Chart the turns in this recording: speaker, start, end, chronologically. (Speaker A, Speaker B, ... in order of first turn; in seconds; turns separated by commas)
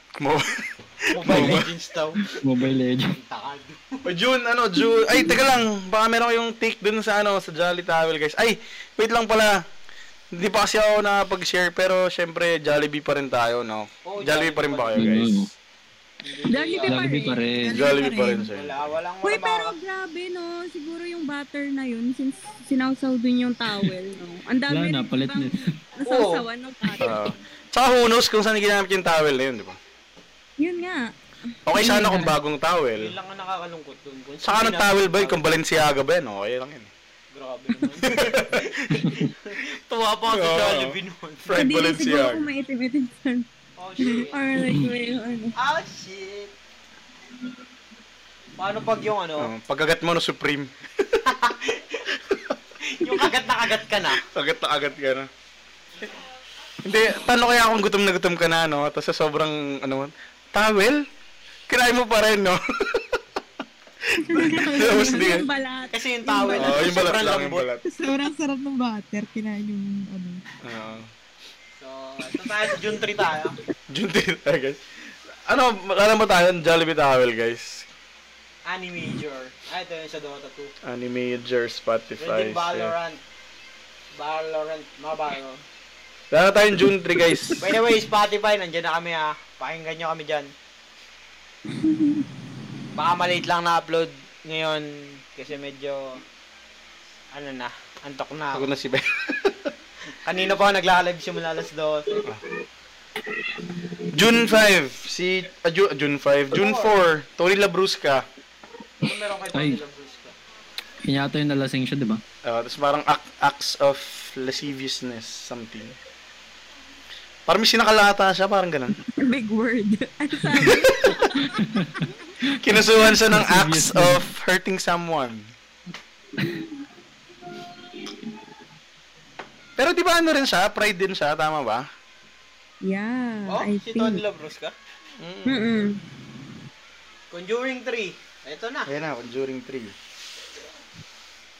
Speaker A: 0.2-1.7, Speaker B: 1.1-2.2, Speaker C: 1.3-1.6, Speaker C: 2.2-3.1, Speaker B: 3.1-4.1, Speaker A: 4.0-9.6, Speaker A: 10.3-15.5, Speaker B: 14.1-15.1, Speaker C: 14.9-15.5, Speaker B: 16.2-17.0, Speaker D: 16.5-17.4, Speaker C: 16.8-17.8, Speaker E: 17.6-18.5, Speaker A: 17.7-18.8, Speaker B: 18.5-19.7, Speaker D: 19.2-27.3, Speaker C: 24.7-25.8, Speaker B: 26.0-26.4, Speaker A: 27.0-29.8, Speaker D: 30.6-31.1, Speaker A: 31.6-33.1, Speaker B: 31.7-32.2, Speaker D: 32.0-32.3, Speaker B: 32.9-35.4, Speaker A: 34.4-36.9, Speaker B: 37.3-41.6, Speaker A: 38.0-39.1, Speaker A: 40.3-42.4, Speaker D: 41.5-43.5, Speaker B: 43.8-44.4, Speaker D: 44.0-45.5, Speaker B: 45.6-46.5, Speaker B: 48.6-49.5, Speaker A: 49.4-51.2, Speaker B: 51.2-52.1, Speaker A: 52.3-52.5, Speaker B: 52.8-54.2, Speaker A: 54.1-55.3, Speaker A: 56.8-61.0, Speaker A: 61.7-63.2, Speaker D: 64.3-67.0, Speaker E: 64.3-65.3, Speaker A: 64.3-65.5, Speaker B: 65.9-67.7, Speaker A: 66.5-67.8, Speaker E: 67.8-70.4, Speaker A: 70.6-71.1, Speaker B: 71.8-73.5, Speaker A: 73.9-74.8, Speaker A: 75.5-77.9, Speaker B: 78.7-80.7, Speaker A: 80.8-82.9, Speaker B: 82.2-83.2, Speaker B: 84.1-85.6, Speaker A: 86.3-87.7, Speaker B: 87.6-90.5, Speaker B: 92.9-96.2, Speaker B: 97.3-98.7, Speaker A: 98.5-99.7, Speaker B: 100.2-102.2, Speaker A: 104.1-108.2, Speaker B: 106.5-106.9, Speaker B: 109.0-110.3, Speaker C: 109.5-109.8, Speaker C: 111.0-112.2, Speaker A: 112.4-116.0, Speaker A: 117.5-118.9, Speaker D: 119.2-121.6, Speaker A: 120.5-121.2, Speaker C: 121.4-124.2, Speaker A: 122.6-125.5, Speaker A: 129.8-131.8, Speaker D: 132.8-134.2, Speaker B: 133.5-134.7, Speaker A: 135.2-135.7, Speaker D: 135.4-136.0, Speaker B: 137.3-138.9, Speaker A: 138.9-139.9